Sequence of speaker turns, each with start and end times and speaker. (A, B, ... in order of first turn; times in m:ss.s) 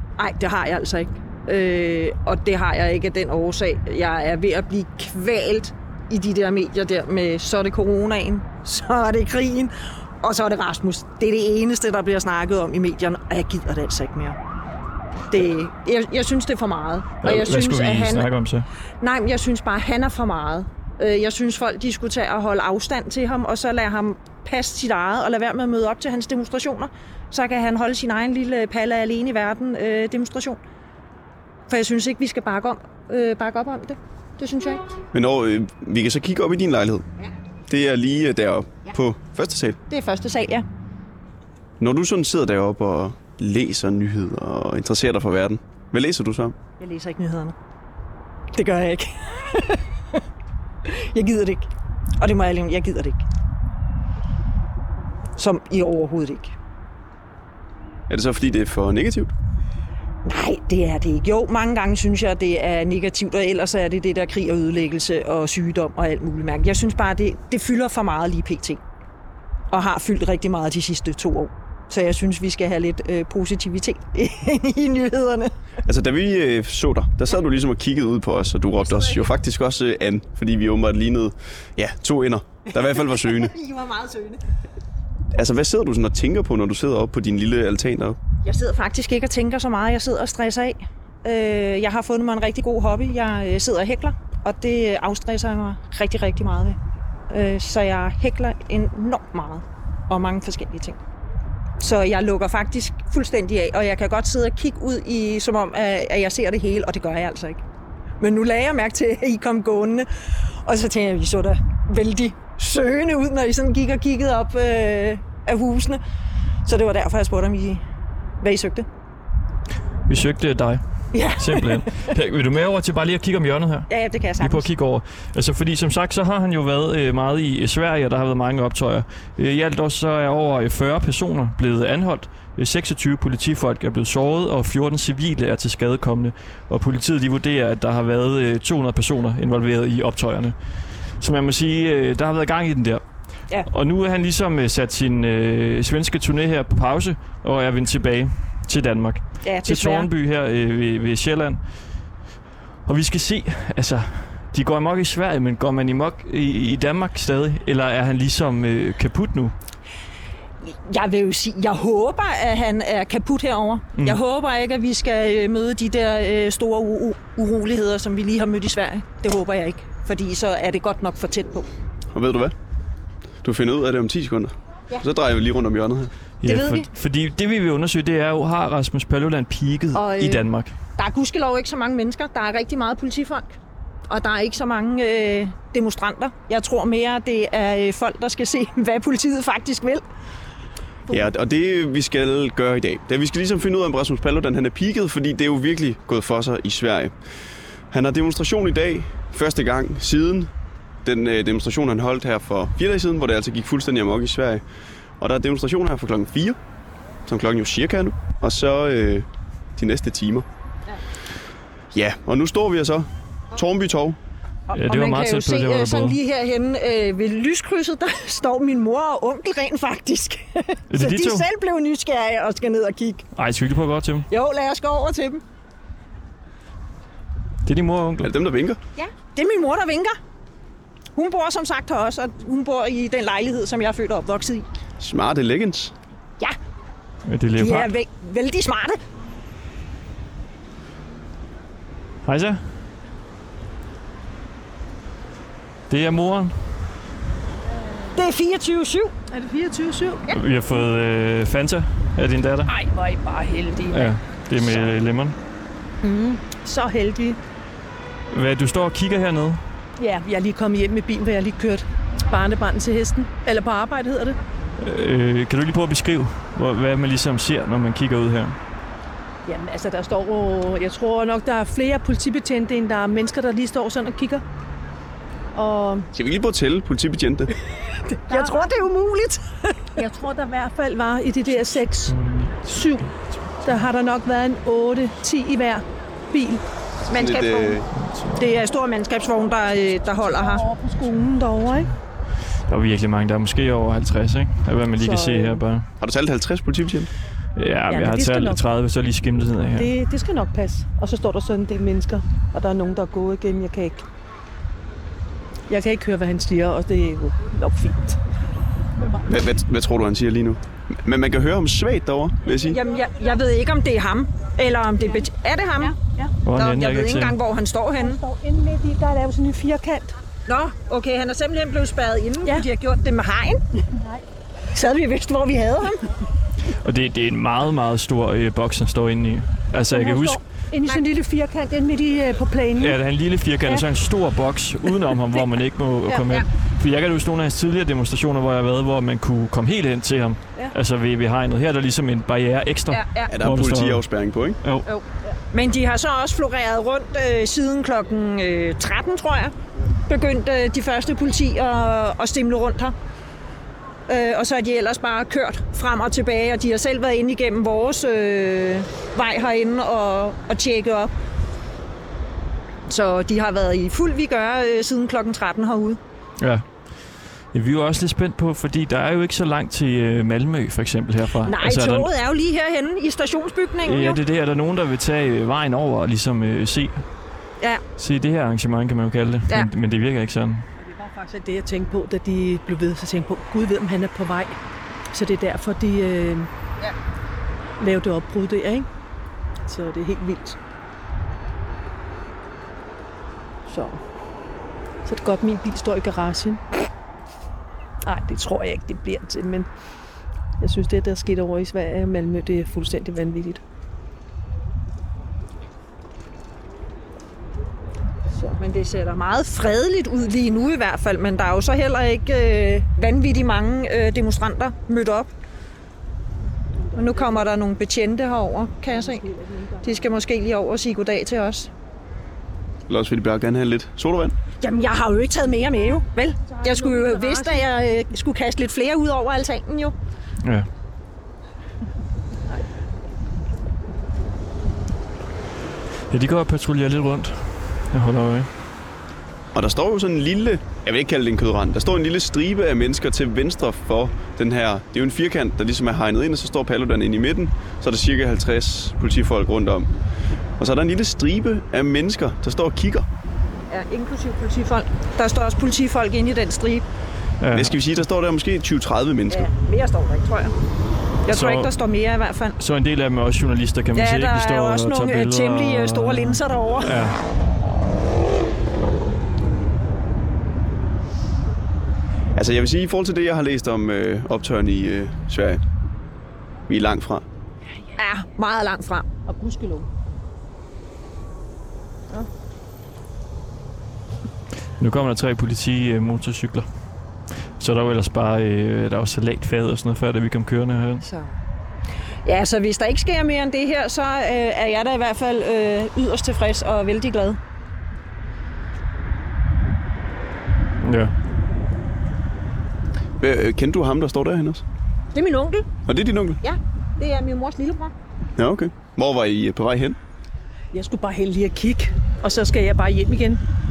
0:00.2-0:14.4 A
0:15.3-0:18.3 A
0:17.2-0:18.7 B
0:19.0-0:30.6 A
0:31.7-0:34.9 A
0:35.1-0:37.0 C
0:37.7-0:39.8 C
0:39.9-0:40.7 A
0:41.8-0:46.6 C
0:46.8-0:47.6 A
0:48.5-0:49.8 A
0:50.9-0:53.2 A
0:55.4-0:56.6 A
0:58.1-0:59.3 C
1:00.2-1:08.8 A
1:09.7-1:15.5 A
1:15.9-1:23.5 C
1:18.8-1:19.3 A
1:22.7-1:24.4 A
1:25.3-1:28.2 C
1:28.4-1:36.8 A
1:37.3-1:41.0 A
1:41.8-1:47.6 A
1:48.2-1:50.1 A
1:50.6-1:56.0 A
1:56.7-1:57.8 A
1:58.4-1:58.9 A
2:00.1-2:00.8 B
2:01.1-2:01.8 A
2:01.4-2:03.9 B
2:03.9-2:04.7 A
2:04.4-2:20.6 B
2:21.2-2:23.0 B
2:23.7-2:31.6 B
2:29.4-2:30.1 A
2:32.9-2:39.6 B
2:40.6-2:51.7 A
2:52.1-2:52.5 C
2:53.4-2:56.1 C
2:56.4-3:00.7 B
2:56.4-2:56.9 A
3:00.0-3:00.4 A
3:01.0-3:03.6 A
3:04.1-3:10.0 A
3:11.1-3:17.1 C
3:17.9-3:20.5 C
3:21.0-3:24.6 C
3:25.2-3:26.6 C
3:27.3-3:30.5 C
3:31.9-3:34.2 C
3:34.7-3:43.3 A
3:34.7-3:36.2 B
3:40.9-3:41.4 B
3:43.4-3:44.3 B
3:44.3-3:45.4 A
3:47.7-3:48.3 B
3:48.2-3:48.8 C
3:49.0-3:50.2 A
3:51.2-3:54.7 A
3:55.0-3:55.9 C
3:57.3-3:57.9 B
3:57.6-3:59.0 A
4:02.2-4:02.6 B
4:05.9-4:06.6 B
4:08.2-4:09.1 A
4:09.3-4:10.3 D
4:10.3-4:12.7 B
4:12.7-4:14.8 D
4:13.9-4:15.4 B
4:16.0-4:17.4 D
4:18.3-4:19.6 B
4:20.0-4:24.4 D
4:24.8-4:28.6 B
4:29.5-4:34.4 D
4:35.6-4:36.1 D
4:36.1-4:37.5 C
4:38.1-4:38.8 D
4:38.3-4:39.4 A
4:40.0-4:42.2 D
4:42.1-4:42.7 B
4:42.7-4:43.1 D
4:43.6-4:46.6 D
4:47.1-4:47.8 A
4:47.1-4:47.9 C
4:48.0-4:48.4 B
4:48.4-4:50.7 A
4:50.2-4:51.9 D
4:52.7-4:55.9 B
4:55.0-4:55.6 D
4:56.0-4:57.1 C
4:57.6-4:59.9 B
4:57.9-4:58.6 D
4:59.8-5:04.0 D
5:05.7-5:08.2 D
5:09.3-5:12.8 C
5:12.7-5:16.0 A
5:15.8-5:16.3 D
5:16.4-5:17.4 B
5:16.5-5:18.2 A
5:18.0-5:20.1 D
5:20.5-5:23.6 A
5:23.9-5:24.2 D
5:24.7-5:26.1 A
5:26.8-5:30.4 B
5:29.9-5:33.0 D
5:32.8-5:44.0 B
5:42.9-5:43.3 A
5:43.3-5:44.6 C
5:45.5-5:49.5 A
5:50.1-5:53.0 A
5:54.1-6:01.1 A
6:02.9-6:06.0 A
6:06.4-6:06.7 B
6:07.5-6:12.1 B
6:11.4-6:14.2 A
6:13.8-6:17.0 B
6:18.0-6:20.7 B
6:20.8-6:24.6 D
6:25.1-6:26.5 D
6:27.8-6:28.9 D
6:29.7-6:30.6 D
6:33.7-6:34.0 D
6:35.0-6:36.6 D
6:38.0-6:39.7 D
6:40.6-6:43.6 D
6:48.4-6:55.3 A
6:56.9-6:57.4 D
6:57.0-6:59.3 A
6:58.9-7:00.0 D
6:59.8-7:01.7 A
7:02.9-7:04.4 C
7:04.6-7:10.0 A
7:06.5-7:07.6 D
7:16.1-7:18.5 B
7:19.5-7:29.9 C
7:30.6-7:33.1 C
7:33.7-7:36.8 A
7:37.4-7:37.8 B
7:37.5-7:39.5 C
7:39.3-7:40.6 A
7:41.3-7:42.6 A
7:41.3-7:41.7 B
7:42.6-7:47.2 B
7:44.0-7:47.0 A
7:52.4-7:55.6 C
7:56.7-7:57.2 C
7:58.0-7:59.1 A
7:59.3-7:59.9 D
8:04.8-8:06.7 B
8:07.6-8:11.0 B
8:12.2-8:17.4 A
8:20.8-8:21.1 B
8:23.2-8:24.6 C
8:25.1-8:25.7 A
8:25.9-8:26.4 C
8:26.4-8:27.9 A
8:28.4-8:30.0 C
8:30.7-8:33.4 D